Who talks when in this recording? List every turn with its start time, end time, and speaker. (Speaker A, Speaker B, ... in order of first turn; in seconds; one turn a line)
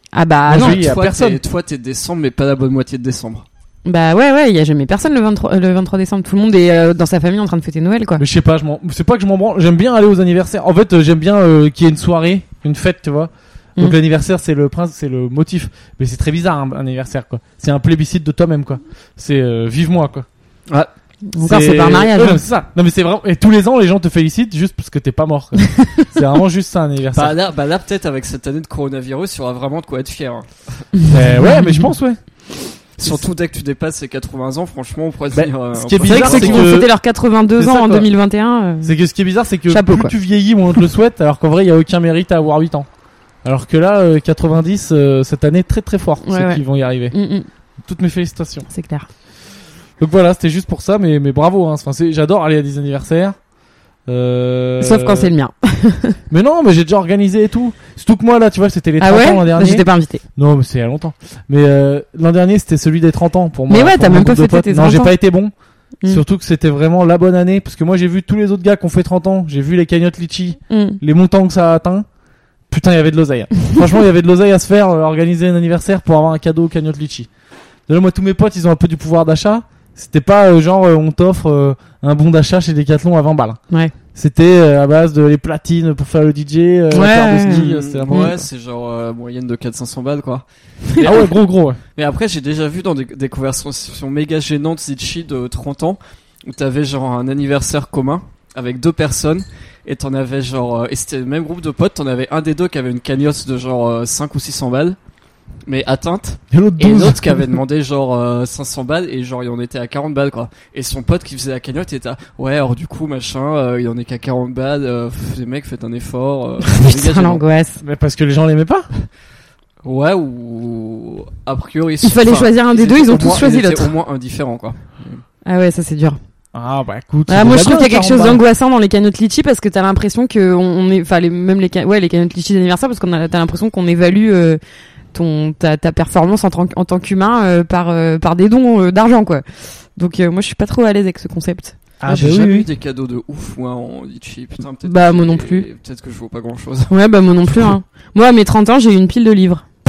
Speaker A: 0.1-0.8
Speaker B: 0.5-1.4
Speaker C: 0.5-3.5
Speaker A: 3.9-8.2
Speaker B: 8.2-20.3
Speaker A: 21.3-22.4
Speaker B: 21.4-27.4
Speaker A: 25.7-26.1
Speaker C: 27.1-30.9
Speaker A: 31.0-31.9
Speaker B: 31.1-32.2
Speaker C: 33.0-36.7
Speaker B: 35.3-36.9
Speaker A: 36.0-38.9
Speaker B: 37.6-38.1
Speaker B: 38.8-42.9
Speaker A: 39.7-40.1
Speaker B: 43.4-47.1
Speaker A: 46.2-47.5
Speaker B: 47.8-48.7
Speaker A: 48.7-49.1
Speaker B: 50.0-53.4
Speaker B: 54.1-55.3
Speaker A: 54.8-56.2
Speaker B: 56.3-65.5
Speaker A: 59.0-60.2
Speaker A: 63.7-65.2
Speaker B: 66.1-72.1
Speaker A: 70.7-71.0
Speaker B: 72.7-77.3
Speaker B: 77.9-83.6
Speaker B: 84.2-88.3
Speaker A: 86.9-88.3
Speaker C: 87.4-91.3
Speaker B: 91.0-91.8
Speaker C: 92.0-105.0
Speaker C: 105.7-117.4
Speaker B: 106.5-107.5
Speaker A: 116.7-117.8
Speaker B: 117.8-118.9
Speaker C: 119.8-125.2
Speaker A: 122.0-123.9
Speaker A: 125.5-126.2
Speaker B: 126.5-128.4
Speaker A: 127.3-134.6
Speaker A: 135.1-139.4
Speaker A: 139.9-141.8
Speaker B: 142.0-142.7
Speaker C: 142.1-147.7
Speaker A: 144.8-145.7
Speaker A: 146.9-149.7